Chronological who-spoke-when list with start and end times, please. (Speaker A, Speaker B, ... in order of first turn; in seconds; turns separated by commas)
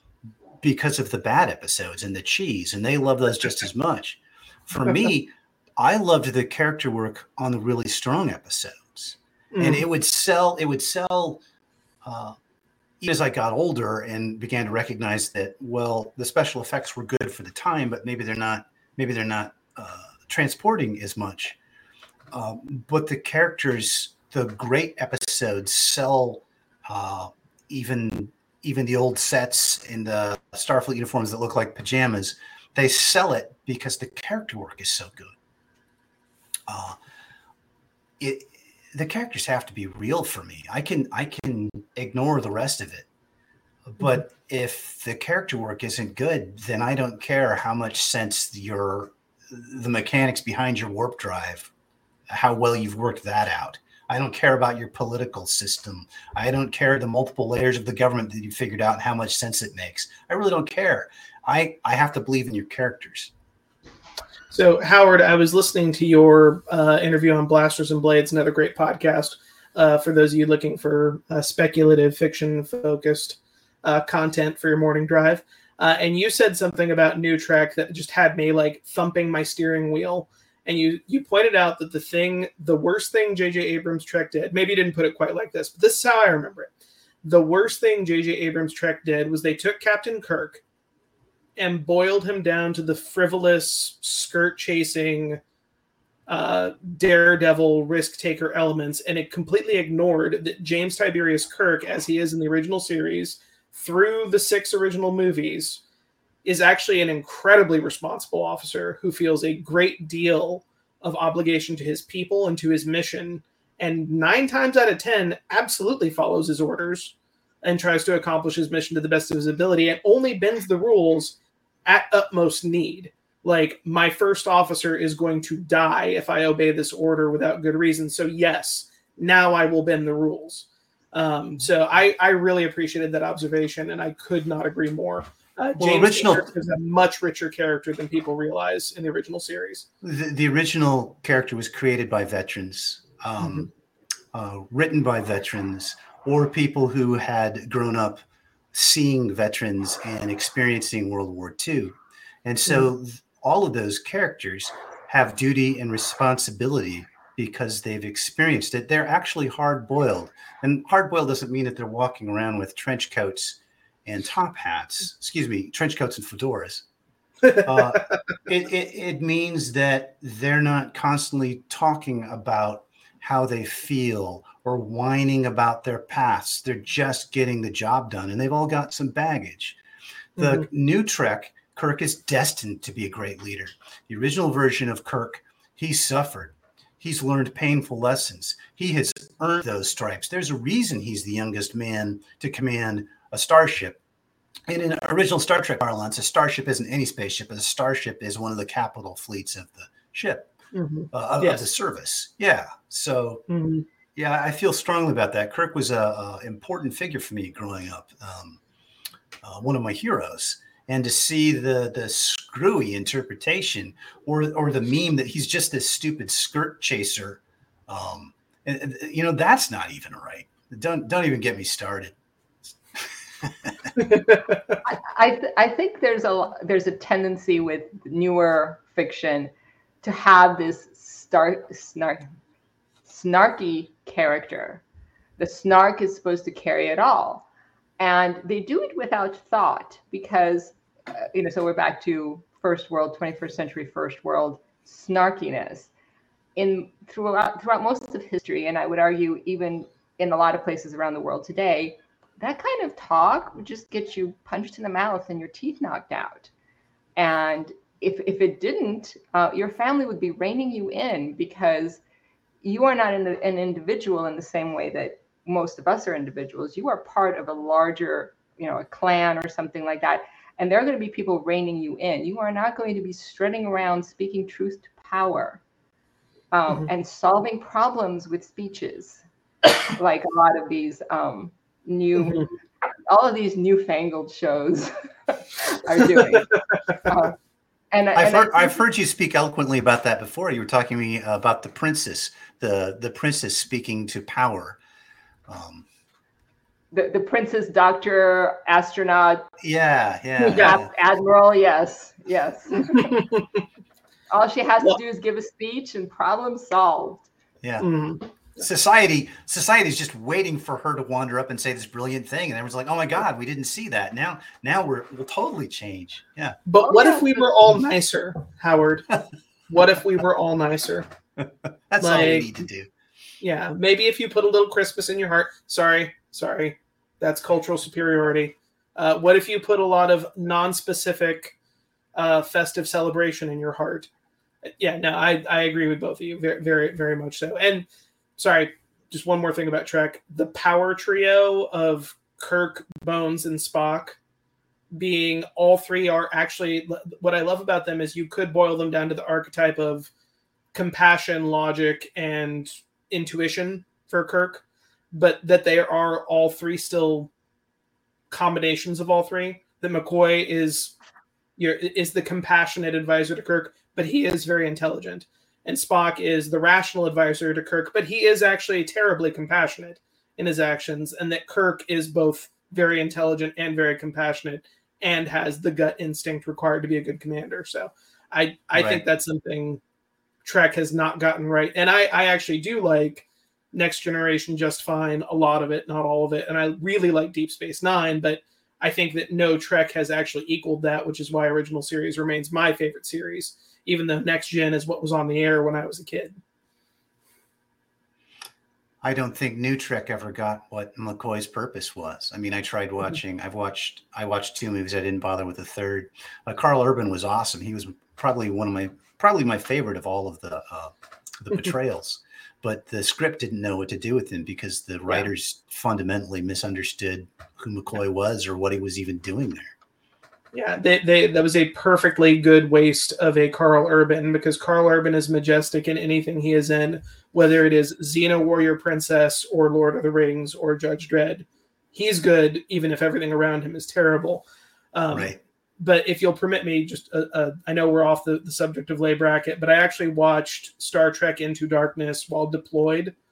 Speaker A: 0.6-11.4, Speaker B: 9.5-9.8, Speaker A: 12.0-12.4, Speaker A: 13.0-21.6, Speaker A: 22.3-35.4, Speaker A: 36.7-37.0, Speaker A: 38.2-43.1, Speaker A: 43.9-51.7, Speaker A: 52.3-63.3, Speaker B: 64.5-86.7, Speaker B: 87.2-90.6, Speaker B: 91.6-95.4, Speaker B: 96.3-105.8, Speaker B: 106.5-139.9, Speaker A: 135.8-136.5, Speaker A: 140.0-143.7, Speaker B: 143.4-143.7, Speaker A: 144.3-148.2, Speaker A: 148.7-166.8, Speaker A: 167.6-179.8, Speaker A: 180.4-194.0, Speaker B: 180.4-180.7, Speaker A: 194.7-200.5, Speaker B: 200.7-201.7, Speaker A: 201.1-203.4, Speaker B: 203.5-203.8, Speaker A: 204.2-208.6, Speaker A: 209.4-222.2, Speaker A: 222.9-223.9, Speaker B: 224.0-224.6, Speaker C: 224.8-232.2, Speaker C: 233.1-234.8, Speaker C: 235.4-237.5, Speaker C: 238.0-245.9, Speaker C: 246.6-256.5, Speaker C: 257.2-262.0, Speaker C: 262.6-275.6, Speaker C: 276.5-279.2, Speaker C: 279.8-282.5, Speaker C: 283.1-286.5, Speaker C: 287.1-287.4, Speaker C: 287.9-288.8, Speaker A: 288.1-294.8, Speaker A: 295.5-295.9, Speaker C: 296.9-299.5, Speaker A: 299.6-300.9, Speaker B: 300.4-300.8, Speaker C: 300.5-303.2, Speaker B: 302.9-303.6, Speaker C: 304.3-307.3, Speaker A: 307.6-307.9, Speaker B: 307.8-308.2, Speaker A: 308.6-316.6, Speaker B: 316.7-319.2, Speaker C: 316.8-317.3, Speaker B: 319.7-321.1, Speaker A: 321.4-322.9, Speaker B: 322.0-322.5, Speaker B: 323.4-331.5, Speaker B: 332.1-334.1, Speaker B: 334.8-337.9, Speaker B: 338.4-344.2, Speaker B: 344.9-350.1, Speaker B: 350.7-357.3, Speaker B: 358.3-360.9, Speaker B: 361.6-379.8, Speaker A: 378.7-379.0, Speaker B: 380.4-396.4, Speaker A: 399.0-419.7, Speaker B: 420.5-434.4, Speaker B: 434.9-443.1, Speaker A: 435.1-435.4